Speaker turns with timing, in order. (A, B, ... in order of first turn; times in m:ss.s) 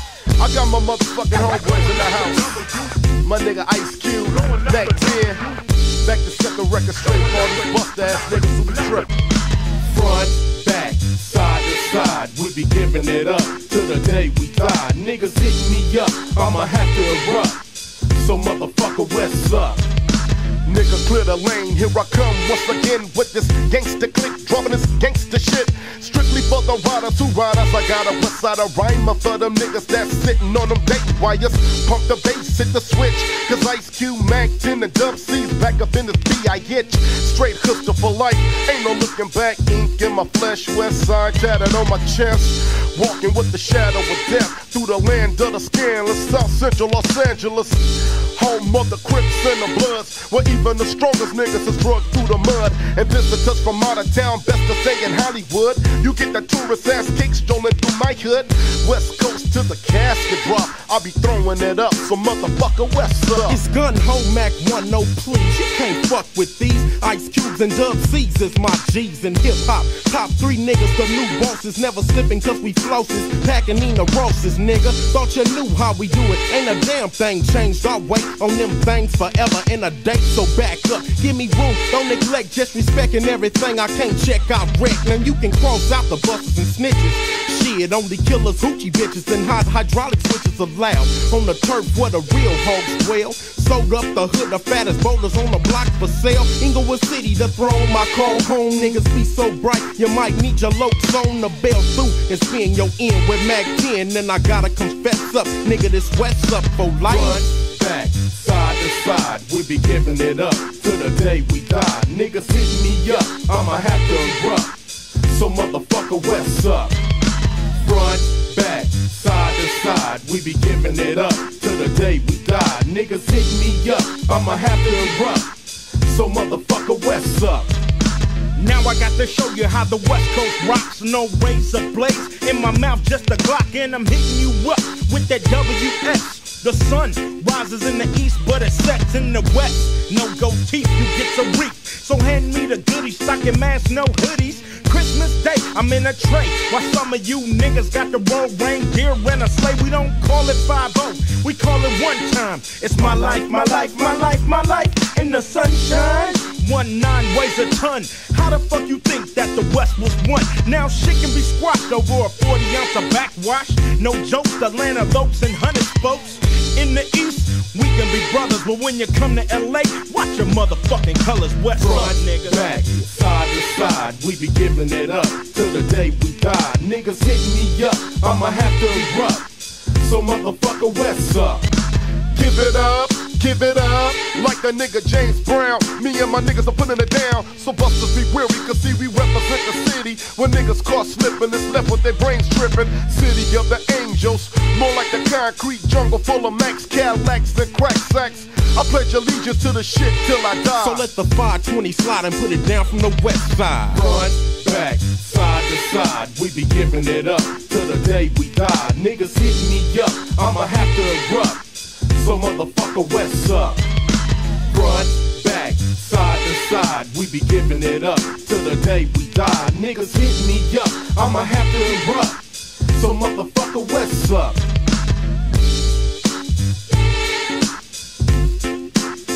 0:00.4-0:05.5 A
0:06.0-0:09.1 A
0:09.8-0:19.8 B
0:20.6-1:03.6 A
1:03.4-1:47.4 C
1:47.1-1:57.0 B
1:57.8-2:07.7 B
2:08.6-2:53.1 D
2:32.9-2:33.7 C
2:51.8-3:01.7 B
3:02.3-3:21.1 A
3:20.7-3:24.0 C
3:23.9-3:33.8 B
3:34.7-3:44.6 B